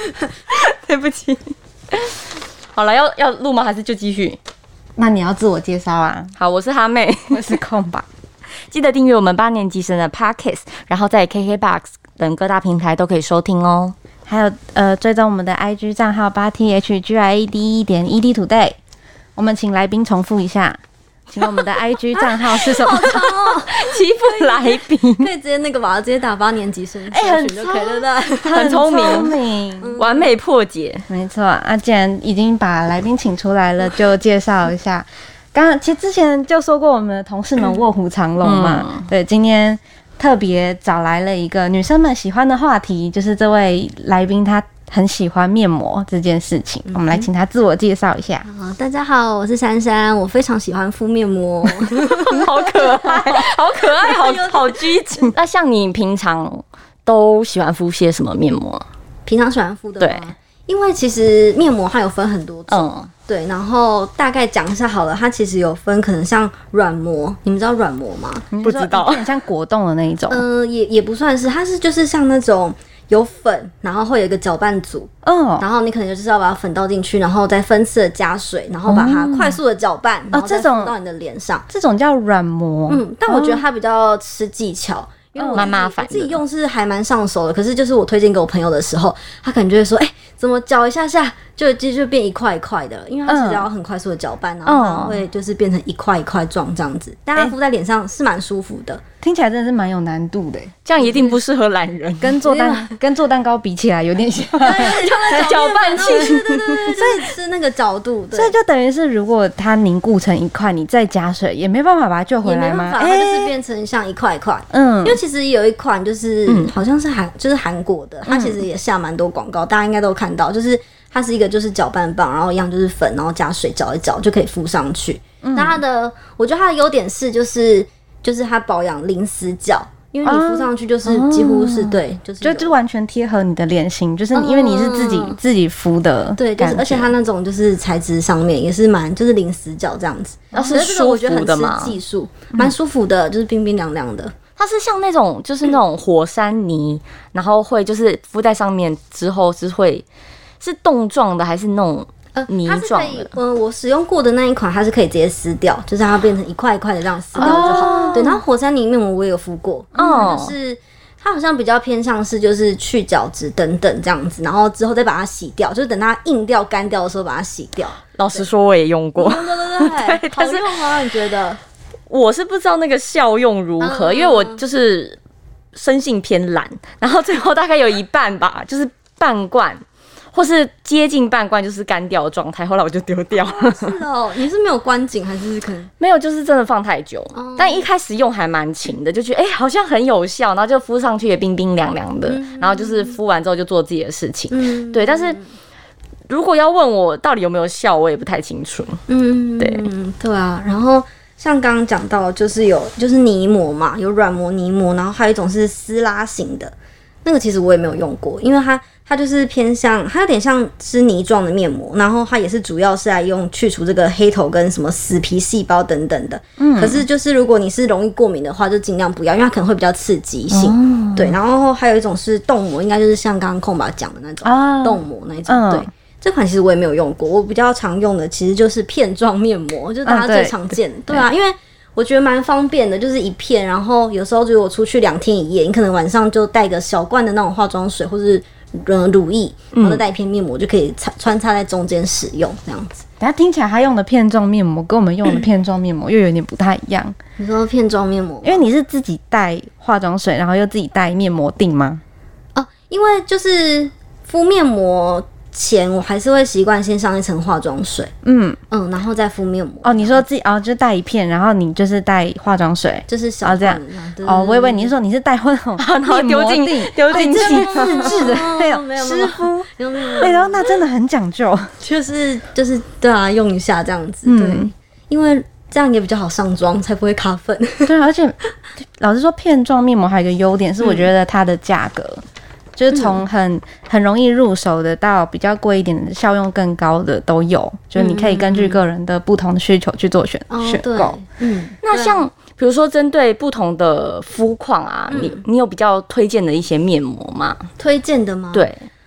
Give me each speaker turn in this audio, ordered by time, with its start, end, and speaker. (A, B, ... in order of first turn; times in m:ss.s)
0:00.5-0:04.4 A
0:05.0-0:06.3 B
0:06.4-0:07.6 A
0:07.3-0:08.1 B
0:08.7-0:14.0 A
0:14.3-0:18.8 B
0:19.4-0:20.8 B
0:21.3-0:23.3 B
0:22.1-0:30.3 C
0:23.2-0:25.3 A
0:27.1-0:30.0 B
0:28.4-0:29.4 A
0:30.0-0:31.1 A
0:31.1-0:48.4 B
0:38.4-0:39.1 A
0:46.9-0:47.3 C
0:48.4-0:55.0 C
0:52.0-0:58.9 A
0:59.3-1:08.5 C
1:00.0-1:00.3 A
1:02.7-1:03.1 A
1:08.5-1:10.4 B
1:08.6-1:09.3 A
1:10.3-1:21.7 C
1:15.2-1:15.6 B
1:18.9-1:19.5 B
1:20.3-1:20.9 B
1:21.7-1:23.6 B
1:22.9-1:39.0 C
1:25.4-1:25.7 B
1:25.6-1:26.4 A
1:33.3-1:33.7 B
1:34.7-1:35.2 A
1:39.2-1:40.7 B
1:40.8-1:42.5 A
1:41.0-1:41.4 C
1:42.2-1:45.0 B
1:42.4-1:42.9 C
1:44.6-1:48.6 C
1:44.8-1:46.8 A
1:46.9-1:47.3 B
1:48.3-1:53.5 B
1:52.4-2:12.8 C
1:54.7-1:55.2 B
1:56.5-1:56.7 A
1:58.3-1:58.6 B
2:05.4-2:05.8 B
2:10.2-2:10.7 B
2:11.1-2:11.9 A
2:12.4-2:17.1 B
2:14.3-2:15.4 C
2:16.4-2:24.3 C
2:20.6-2:22.0 A
2:24.6-2:30.0 A
2:30.6-2:33.3 A
2:32.4-2:48.5 C
2:37.4-2:38.4 B
2:40.0-2:40.3 B
2:40.0-2:40.5 A
2:48.2-2:50.8 A
2:49.2-2:51.6 C
2:52.1-2:55.2 A
2:53.8-2:54.6 C
2:55.7-2:59.8 A
3:00.3-3:04.0 A
3:03.4-3:05.9 C
3:06.0-3:15.4 A
3:07.3-3:07.9 C
3:12.3-3:13.2 C
3:14.5-3:15.5 C
3:16.3-3:19.0 A
3:19.1-3:26.7 C
3:19.6-3:19.9 A
3:27.2-4:03.1 C
3:36.6-3:37.0 B
3:40.5-3:41.4 A
3:44.4-3:45.9 B
3:50.0-3:51.3 B
3:59.7-4:00.0 A
4:03.2-4:07.2 B
4:07.4-4:08.6 C
4:08.4-4:12.0 B
4:12.6-4:18.1 C
4:18.2-4:18.6 B
4:18.7-4:20.2 C
4:19.8-4:31.7 B
4:23.1-4:24.9 C
4:25.8-4:28.4 A
4:27.1-4:30.7 C
4:31.8-4:37.9 C
4:34.2-4:34.7 B
4:37.8-4:42.2 B
4:40.8-4:41.1 C
4:42.8-4:51.2 B
4:42.9-4:43.2 C
4:48.0-4:48.8 C
4:50.5-4:52.2 C
4:51.8-4:57.7 A
4:55.1-4:55.4 C
4:57.8-4:58.7 C
4:58.5-4:58.9 A